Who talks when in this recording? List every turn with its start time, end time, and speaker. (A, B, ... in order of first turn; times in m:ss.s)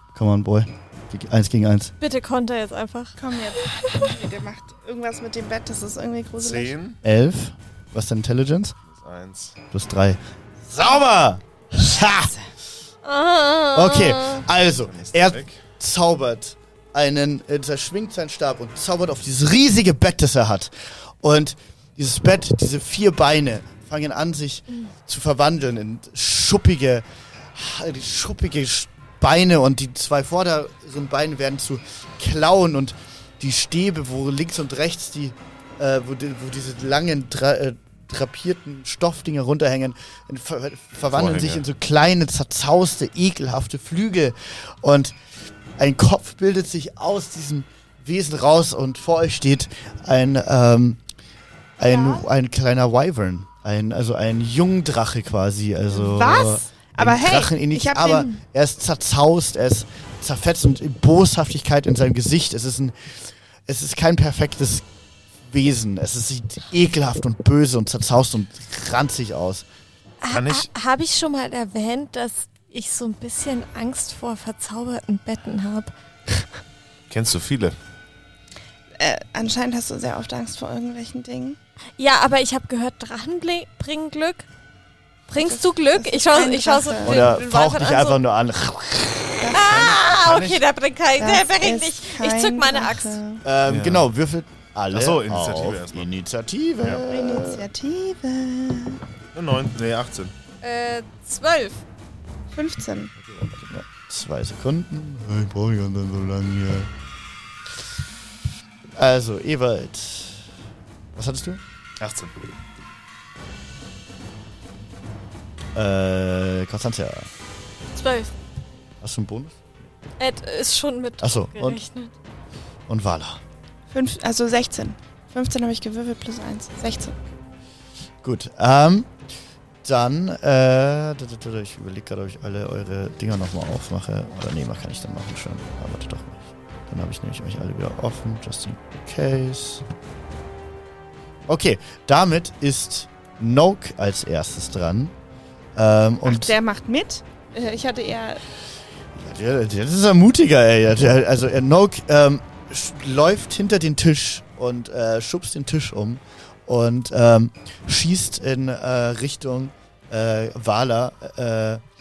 0:00.1-0:01.9 A
0:02.0-0:04.0 B
0:03.2-0:06.7 C
0:06.4-0:07.0 D
0:07.0-0:08.8 A
0:08.9-0:09.6 D
0:09.7-0:12.3 A
0:13.0-0:14.4 B
0:13.7-0:45.2 A
0:14.8-0:15.6 D
0:41.1-0:41.6 D
0:45.8-0:51.0 A
0:51.8-1:04.9 A
0:51.8-0:52.2 C
0:55.9-0:58.3 C
1:05.5-1:09.7 A
1:10.2-1:15.9 B
1:10.3-1:10.7 D
1:17.1-1:17.8 D
1:19.0-1:21.6 C
1:22.0-1:24.5 B
1:25.3-1:28.2 B
1:25.4-1:27.3 C
1:27.0-1:30.6 A
1:29.4-1:29.8 C
1:29.5-1:33.2 B
1:31.2-1:33.4 C
1:33.4-1:37.7 A
1:33.7-1:34.1 D
1:34.9-1:36.1 D
1:37.0-1:39.0 C
1:39.3-1:40.3 D
1:40.6-1:41.8 B
1:42.5-1:43.1 C
1:43.2-1:46.9 A
1:49.0-1:50.5 A
1:51.2-1:51.6 A
1:52.0-1:52.3 D
1:55.7-1:57.3 A
1:57.9-1:58.3 B
1:59.0-1:59.6 A
2:00.2-2:02.1 B
2:01.2-2:01.8 A
2:02.9-2:03.4 A
2:03.9-2:07.2 C
2:08.2-2:09.1 A
2:09.8-2:19.9 A
2:21.5-2:25.1 A
2:25.8-2:26.5 A
2:26.2-2:28.4 C
2:29.1-2:41.8 A